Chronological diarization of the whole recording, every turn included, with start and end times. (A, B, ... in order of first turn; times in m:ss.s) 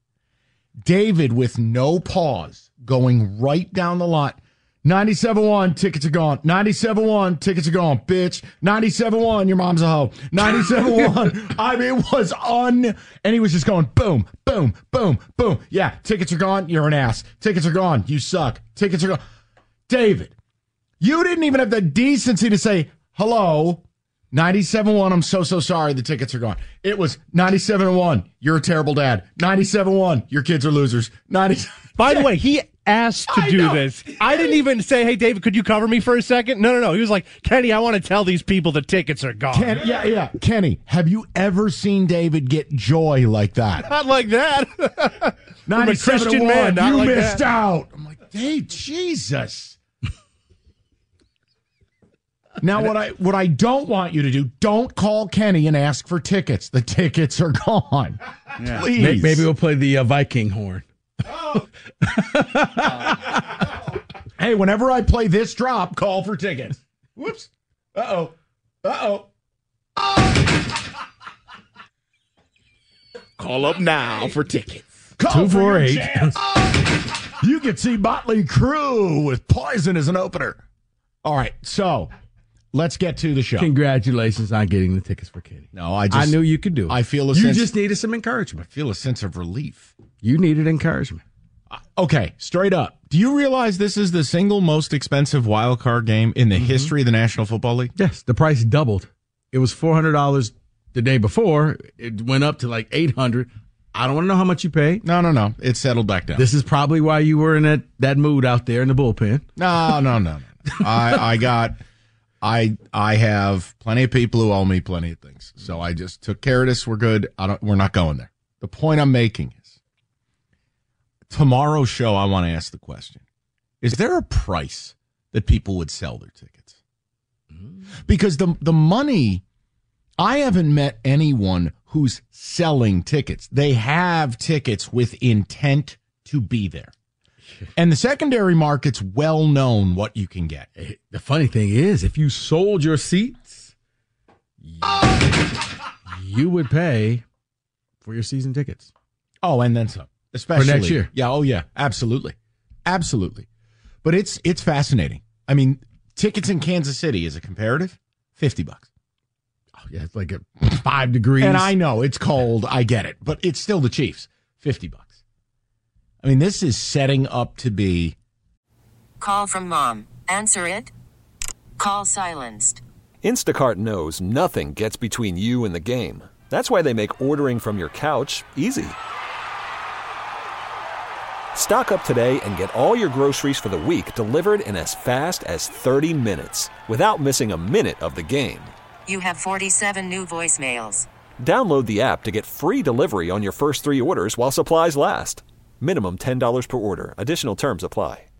0:00.8-0:19.2 A
0:19.9-0:20.3 A
0:21.0-0:32.3 A
0:32.0-0:39.8 B
0:33.3-0:33.8 A
0:39.5-0:43.8 A
0:43.9-0:47.4 B
0:45.7-0:49.8 A
0:52.6-0:59.5 A
0:58.7-1:03.7 C
1:04.4-1:09.3 A
1:13.4-1:20.6 A
1:15.3-1:16.4 C
1:21.2-1:22.1 A
1:22.7-1:23.7 A
1:23.6-1:28.7 C
1:25.7-1:26.4 A
1:26.9-1:27.7 A
1:28.7-1:29.9 A
1:30.2-1:31.2 C
1:31.7-1:37.9 A
1:36.5-1:36.9 C
1:37.9-1:45.0 C
1:45.0-1:46.5 A
1:46.3-1:50.0 C
1:49.6-1:51.8 A
1:50.6-1:51.3 C
1:52.4-1:59.8 A
2:01.3-2:03.2 A
2:03.8-2:06.8 A
2:08.1-2:09.4 A
2:10.2-2:16.9 A
2:17.8-2:20.7 A
2:20.8-2:23.7 C
2:24.6-2:25.2 C
2:26.1-2:27.2 C
2:28.0-2:28.9 C
2:29.4-2:32.3 A
2:30.5-2:31.1 C
2:32.8-2:33.5 A
2:34.0-2:38.9 A
2:39.8-2:41.7 C
2:41.4-2:45.1 A
2:46.2-2:48.2 A
2:49.2-2:50.9 D
2:51.8-2:52.8 D
2:53.2-2:59.0 E
3:01.6-3:08.7 E
3:09.1-3:11.0 D
3:11.4-3:18.2 E